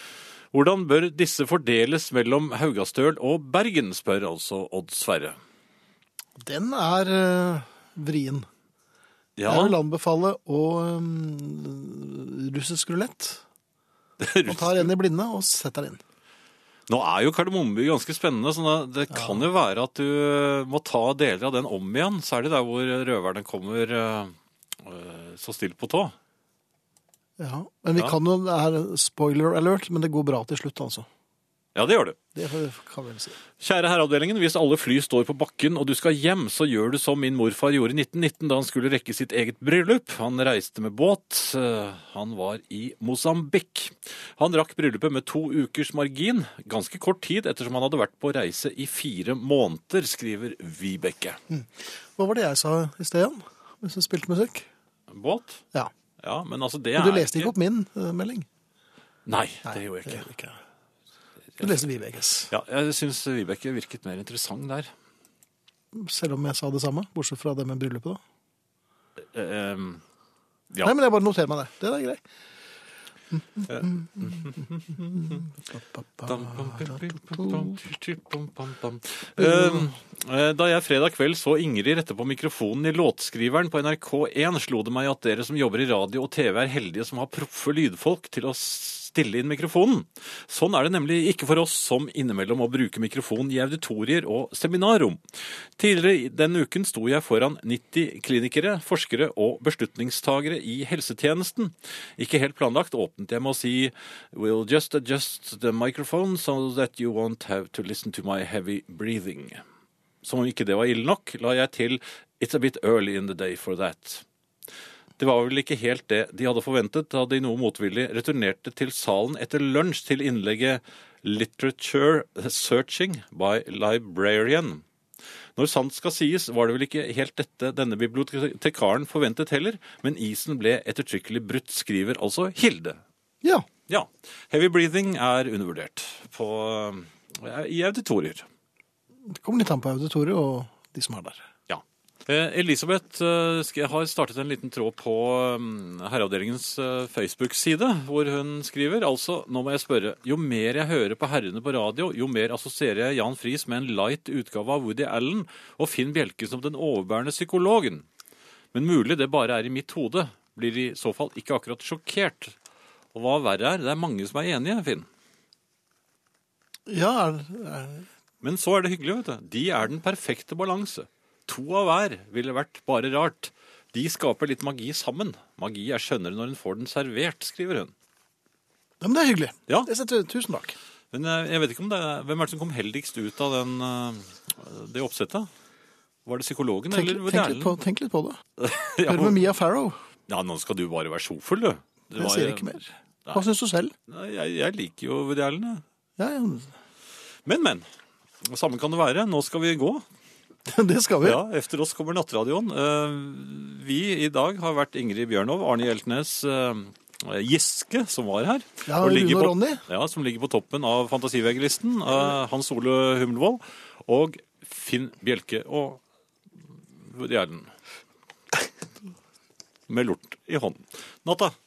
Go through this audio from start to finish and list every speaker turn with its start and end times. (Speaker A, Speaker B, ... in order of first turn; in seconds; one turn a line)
Speaker A: 0.5-5.4
Speaker B: 6.4-8.5
Speaker A: 9.4-9.8
Speaker B: 9.4-13.4
Speaker A: 14.2-14.9
Speaker B: 14.4-16.0
Speaker A: 16.9-26.1
Speaker B: 19.1-19.4
Speaker B: 27.4-31.1
Speaker A: 31.7-32.2
Speaker B: 32.4-33.4
Speaker A: 33.6-51.4
Speaker B: 51.5-54.7
Speaker A: 55.1-55.6
Speaker A: 56.2-57.5
Speaker B: 57.0-58.5
Speaker A: 59.2-60.2
Speaker B: 59.6-60.6
Speaker B: 61.6-62.5
Speaker A: 62.5-64.9
Speaker B: 65.9-68.2
Speaker A: 69.3-70.0
Speaker B: 70.8-72.2
Speaker B: 73.3-74.4
Speaker A: 73.7-75.5
Speaker B: 75.2-77.7
Speaker A: 76.2-95.2
Speaker B: 79.4-79.9
Speaker A: 95.8-109.6
Speaker A: 110.2-114.2
Speaker A: 115.2-124.8
Speaker A: 125.5-133.0
Speaker A: 133.9-138.5
Speaker B: 139.2-141.5
Speaker A: 141.7-158.0
Speaker A: 158.7-162.5
Speaker A: 163.1-165.1
Speaker B: 166.9-168.1
Speaker A: 168.4-177.9
Speaker B: 179.0-180.8
Speaker A: 181.1-185.5
Speaker A: 186.2-187.8
Speaker B: 186.9-188.4
Speaker A: 188.6-189.4
Speaker B: 189.1-190.0
Speaker A: 190.3-193.4
Speaker B: 192.1-193.9
Speaker A: 194.1-195.8
Speaker B: 196.2-196.7
Speaker A: 197.4-197.8
Speaker A: 198.4-200.0
Speaker B: 200.7-201.4
Speaker A: 201.2-216.0
Speaker B: 208.8-209.8
Speaker A: 217.0-217.7
Speaker A: 219.9-221.5